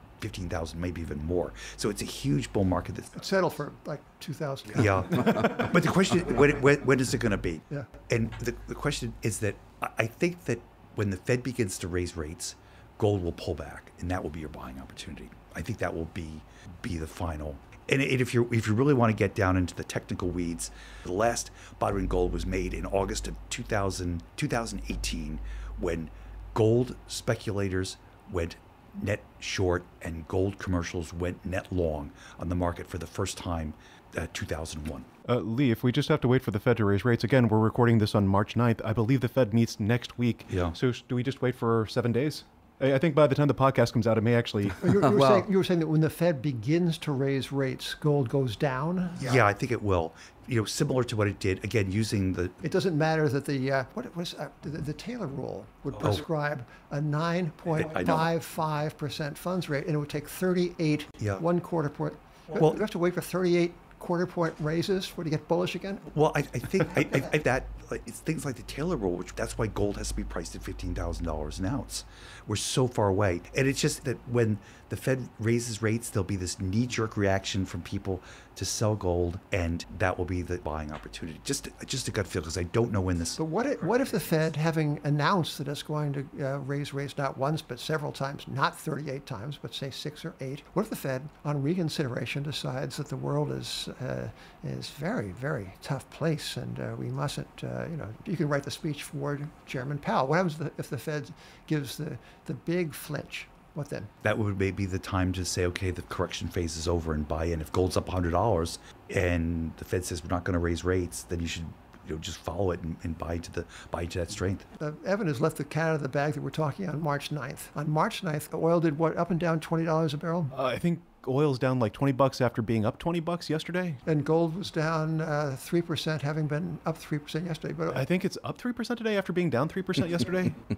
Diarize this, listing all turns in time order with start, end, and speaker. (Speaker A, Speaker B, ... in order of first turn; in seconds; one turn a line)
Speaker A: 0.2-3.2
Speaker B: 3.1-5.6
Speaker A: 4.8-35.1
Speaker C: 35.2-44.9
Speaker A: 40.5-40.8
Speaker B: 44.8-49.4
Speaker A: 49.2-52.6
Speaker B: 52.6-66.1
Speaker A: 57.8-58.3
Speaker A: 66.1-83.4
Speaker B: 83.4-104.1
Speaker A: 104.2-114.7
Speaker B: 114.8-120.5
Speaker C: 120.5-124.0
Speaker B: 124.0-128.0
Speaker C: 127.9-130.6